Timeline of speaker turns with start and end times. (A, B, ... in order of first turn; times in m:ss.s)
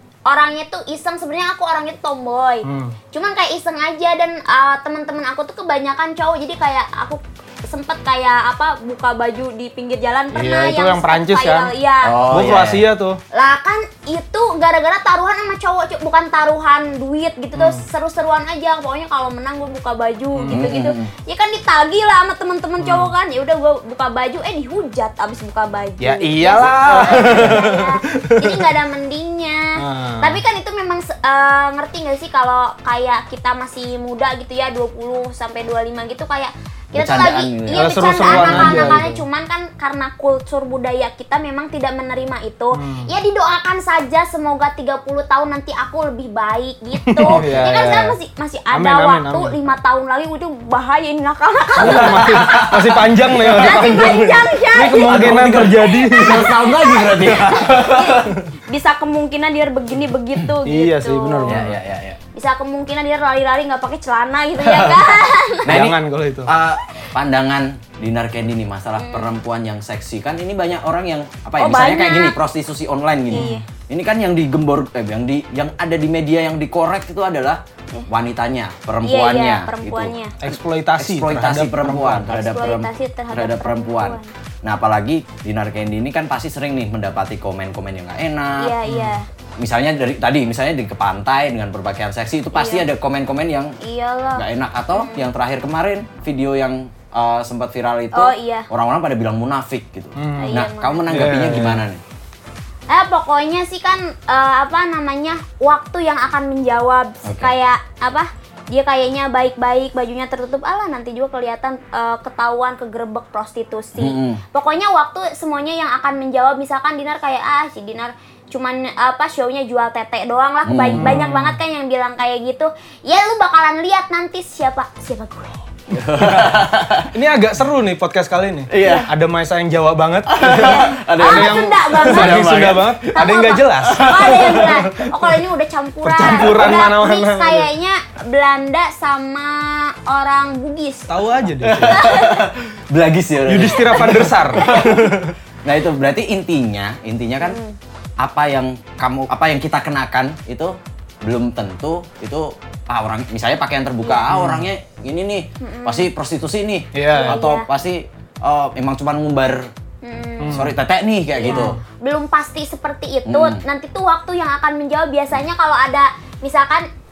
0:00.3-0:12.2 A
0:02.6-0:03.0 B
0:10.3-0:11.7 B
0:12.0-0:12.9 C
0:12.3-0:13.2 B
0:13.3-0:29.7 A
0:17.6-0:17.8 B
0:20.4-0:20.7 B
0:20.5-0:21.1 C
0:22.8-0:23.1 B
0:26.0-0:28.7 B
0:27.0-0:27.5 C
0:29.8-0:30.4 B
0:30.2-0:52.7 A
0:36.9-0:39.1 C
0:37.7-0:39.2 B
0:42.7-0:43.1 B
0:47.0-0:48.1 B
0:47.3-0:48.1 C
0:48.7-0:49.6 B
0:51.8-0:56.6 B
0:51.8-0:54.0 C
0:53.3-1:01.7 A
0:54.8-0:58.4 C
1:00.6-1:01.8 B
1:01.4-1:02.2 C
1:02.3-1:05.8 A
1:04.6-1:28.8 C
1:05.6-1:06.5 B
1:09.0-1:09.3 A
1:11.6-1:12.4 A
1:13.3-1:13.6 A
1:13.3-1:13.6 B
1:19.0-1:20.4 A
1:20.4-1:22.4 B
1:22.3-1:24.3 A
1:28.6-1:29.3 A
1:28.9-1:29.2 B
1:29.6-1:33.8 C
1:32.5-1:32.9 A
1:33.8-1:35.3 A
1:34.4-1:42.0 C
1:38.1-1:38.7 A
1:40.2-1:41.8 B
1:40.3-1:41.0 A
1:42.9-2:05.6 A
1:47.2-1:47.5 C
1:54.0-1:54.4 C
2:00.7-2:01.2 C
2:01.0-2:01.6 B
2:05.9-2:07.1 C
2:06.2-2:06.5 B
2:07.1-2:15.1 B
2:08.7-2:09.1 C
2:08.8-2:09.1 A
2:10.3-2:13.2 C
2:10.5-2:12.4 A
2:13.1-2:22.5 A
2:13.8-2:14.6 C
2:16.0-2:17.7 B
2:21.1-2:22.0 B
2:21.6-2:25.0 C
2:23.4-2:25.4 B
2:23.6-2:24.9 A
2:25.6-2:27.6 C
2:27.4-2:27.8 A
2:28.2-2:39.7 C
2:34.3-2:34.7 B
2:35.6-2:36.1 A
2:36.9-2:37.4 B
2:37.1-2:37.7 A
2:40.0-2:40.6 A
2:40.4-2:40.8 B
2:40.5-2:41.8 C
2:41.3-2:46.9 A
2:41.4-2:41.8 B
2:43.3-2:43.6 C